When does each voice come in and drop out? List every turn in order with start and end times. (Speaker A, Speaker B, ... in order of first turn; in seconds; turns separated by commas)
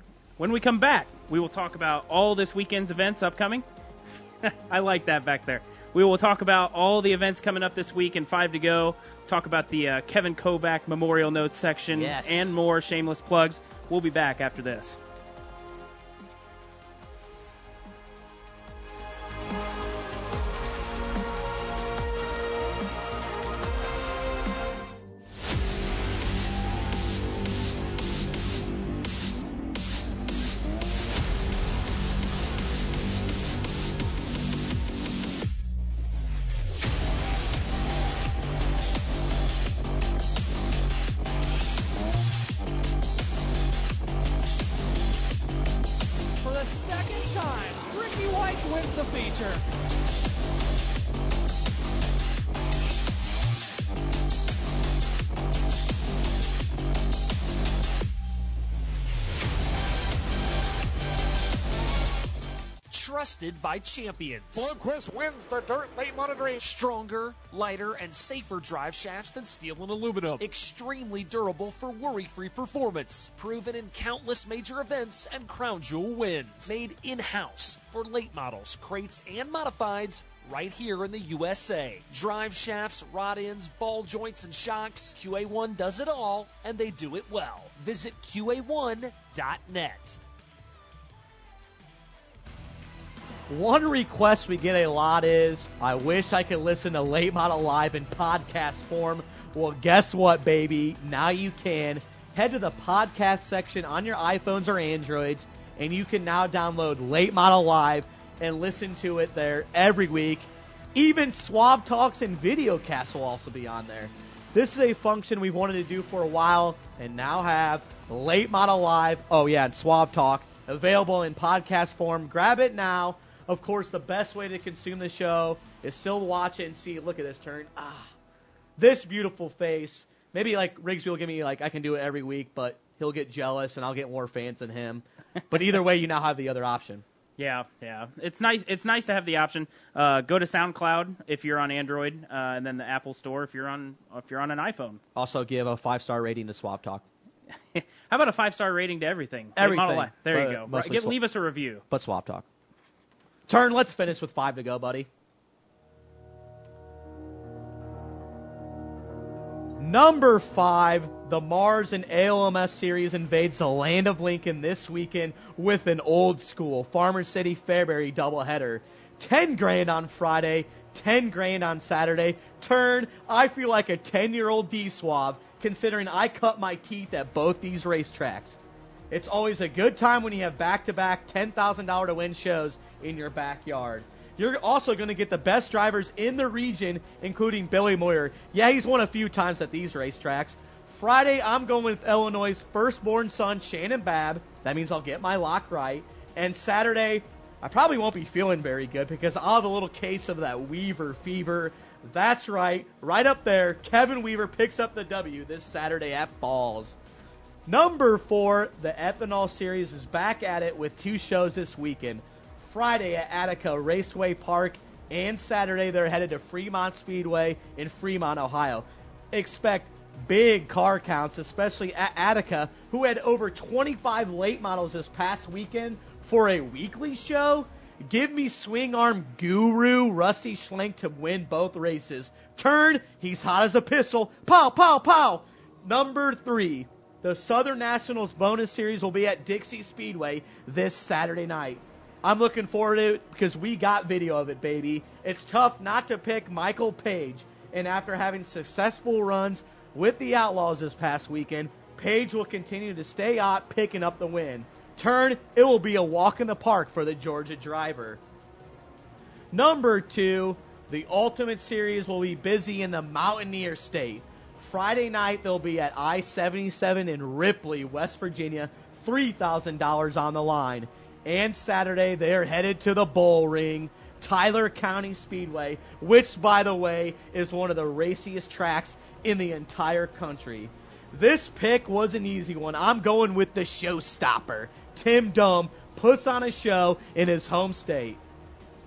Speaker A: 0.4-3.6, Speaker A: 4.4-15.0, Speaker B: 11.9-12.6, Speaker C: 46.4-49.6, Speaker D: 62.9-64.8, Speaker E: 64.5-66.6, Speaker D: 66.6-90.2, Speaker E: 69.9-70.4, Speaker B: 93.5-128.1, Speaker B: 128.8-137.0, Speaker A: 137.4-145.0, Speaker B: 145.2-147.1, Speaker A: 147.7-151.8, Speaker B: 149.6-151.2, Speaker B: 151.9-152.5, Speaker B: 153.5-155.1, Speaker B: 159.8-178.6, Speaker B: 179.1-207.0, Speaker B: 207.7-258.2, Speaker B: 259.5-288.2